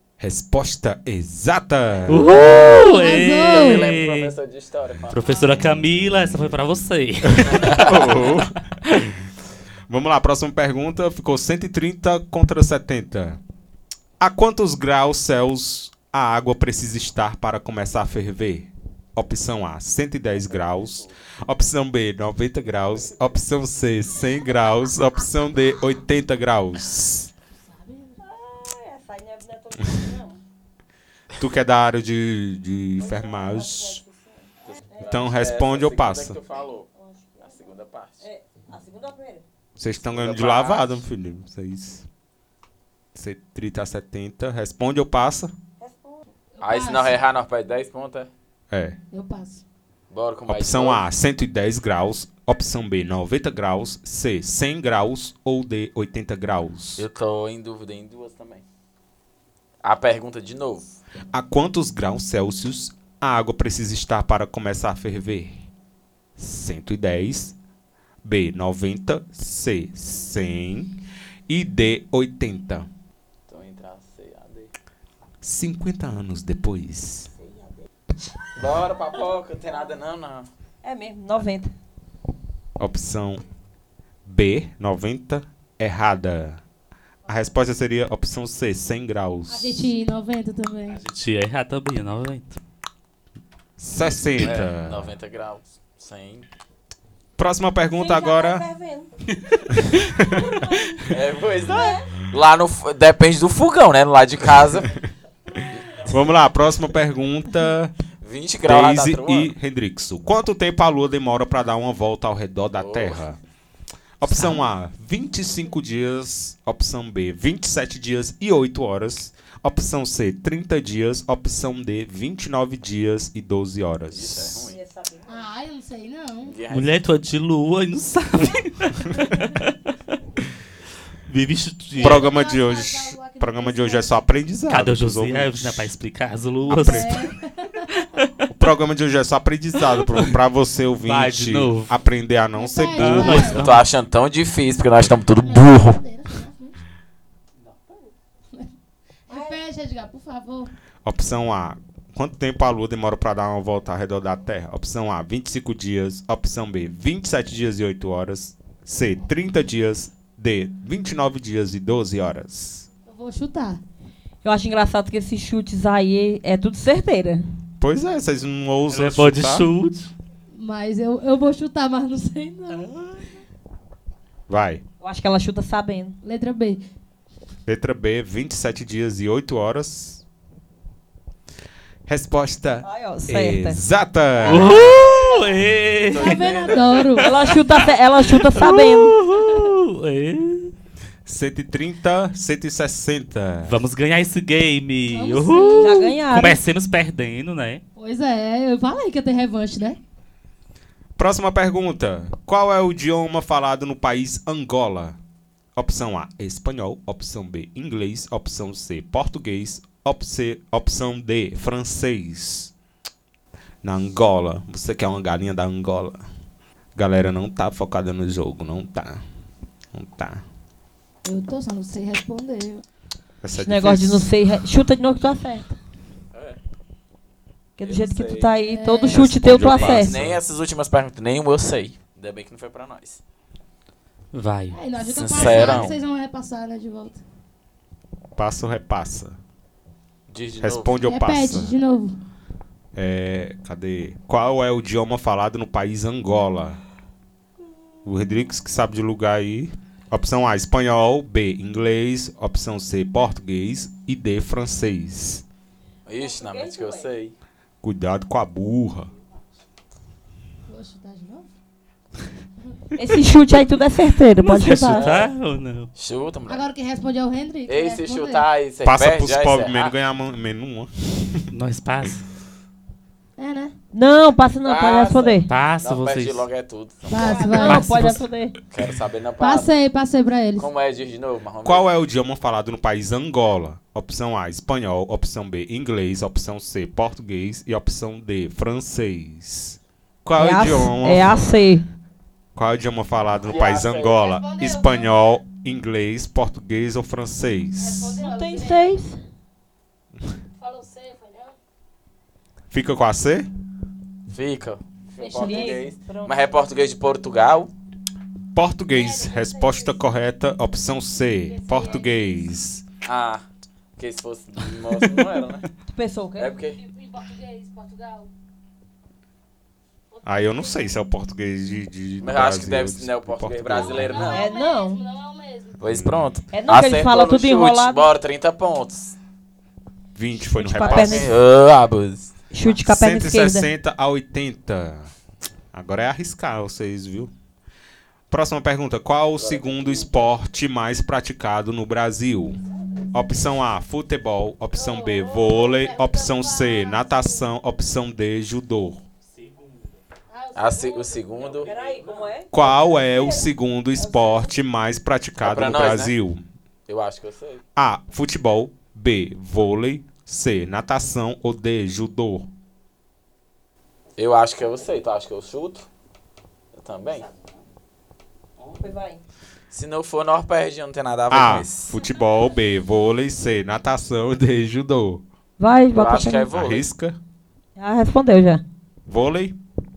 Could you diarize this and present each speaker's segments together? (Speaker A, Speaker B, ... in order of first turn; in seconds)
Speaker A: 0.2-2.3, 7.4-8.6, 9.9-13.4, 14.2-27.3, 31.4-34.0, 35.1-36.4, 39.8-42.0, 43.1-45.5, 48.7-49.0, 50.5-57.0, 61.3-65.6, 66.4-67.5, 68.2-72.9, 75.4-77.3, 82.8-83.4, 84.2-86.6, 87.3-89.9, 93.8-95.1, 97.4-98.7, 99.7-100.6, 106.0-107.9, 108.6-113.4, 114.2-124.7, 132.0-135.9, 136.7-137.2, 138.5-143.6, 151.0-162.9, 167.8-169.7, 174.5-174.8, 177.7-180.2, 182.1-184.9, 191.2-193.8, 201.2-205.2, 205.8-212.7, 213.8-216.2, 216.9-219.2, 219.9-220.4, 223.4-224.3, 229.1-230.4, 238.3-239.3, 240.6-241.7, 242.9-246.8, 248.0-255.4, 257.8-259.1, 268.8-271.5, 281.6-291.5, 292.5-298.2, 302.7-303.5, 308.5-312.8, 320.2-324.3, 325.9-326.3, 330.1-331.3, 332.6-335.1, 335.7-337.3, 338.3-342.6, 343.1-349.0, 352.5-356.4, 357.8-362.5, 371.3-375.2, 376.5-377.2, 379.1-379.6
Speaker B: 2.1-4.3, 5.1-7.9, 90.9-92.6, 126.7-129.7, 131.3-132.3, 134.7-137.3, 138.0-138.3, 139.9-140.3, 141.0-141.9, 143.0-143.8, 168.9-170.1, 172.8-173.1, 184.4-190.7, 193.6-197.8, 234.3-234.8, 264.4-265.9, 271.5-272.2, 275.5-276.4, 277.8-278.1
Speaker C: 2.2-5.5, 7.4-8.2, 20.3-21.2, 34.6-36.9, 37.4-38.2, 40.0-41.0, 46.6-48.3, 50.1-51.0, 57.0-58.6, 59.8-60.9, 73.5-74.7, 78.5-80.5, 94.4-96.5, 101.1-104.9, 105.7-106.0, 108.2-109.5, 112.8-113.2, 124.1-124.8, 126.4-127.0, 143.5-146.0, 186.1-186.8, 226.3-226.6, 227.8-228.5, 229.6-233.2, 235.0-236.0, 240.3-241.0, 256.1-257.3, 264.9-265.3, 265.9-266.6, 267.7-269.9, 274.6-277.8, 278.7-279.7, 280.6-281.9, 293.4-294.2, 304.3-307.7, 313.0-313.4, 314.0-315.7, 316.4-316.8, 322.2-324.5, 325.8-329.1, 330.8-332.3, 339.4-340.4, 350.5-352.9, 355.4-356.1, 356.9-357.6, 364.2-365.9, 366.7-367.3, 369.7-371.9, 375.9-376.9
Speaker D: 2.5-3.9, 27.5-28.1, 46.7-47.1, 49.1-49.6, 89.5-91.0, 125.3-126.5, 132.0-133.4, 136.8-137.7, 142.6-143.6, 145.5-146.7, 149.3-150.7, 163.1-163.8, 170.5-172.9, 176.2-176.8, 186.2-187.3, 195.1-196.2, 198.0-200.0, 221.2-222.8, 228.7-229.3, 234.7-237.2, 241.0-242.1, 260.7-261.5, 266.5-268.4, 273.4-273.7, 277.1-278.1, 279.4-280.7
Speaker E: 28.2-30.4, 33.0-35.2, 36.9-39.4, 45.8-46.2, 77.4-77.8, 80.8-81.7, 97.9-99.1, 100.2-101.0, 101.7-102.0, 124.6-125.5, 164.4-167.4, 175.0-176.2, 182.8-183.8, 187.2-189.2, 195.8-196.6, 223.6-225.7, 227.8-230.1, 256.2-257.1, 263.0-265.1, 273.9-275.5, 277.2-278.6, 290.4-291.8, 298.2-299.2, 305.4-306.3, 315.9-316.5, 324.3-325.0, 326.5-328.1, 330.5-331.3, 332.5-333.7, 351.6-354.5, 368.8-369.2, 375.6-376.5, 377.8-378.6
Speaker F: 46.6-47.0, 132.1-134.0, 149.3-149.5, 235.4-235.8, 294.2-295.1, 297.8-298.9, 300.6-301.5, 305.2-305.8, 308.9-310.0, 311.5-312.5, 316.7-318.3, 320.1-320.9, 323.8-325.9, 344.7-347.4, 350.3-351.7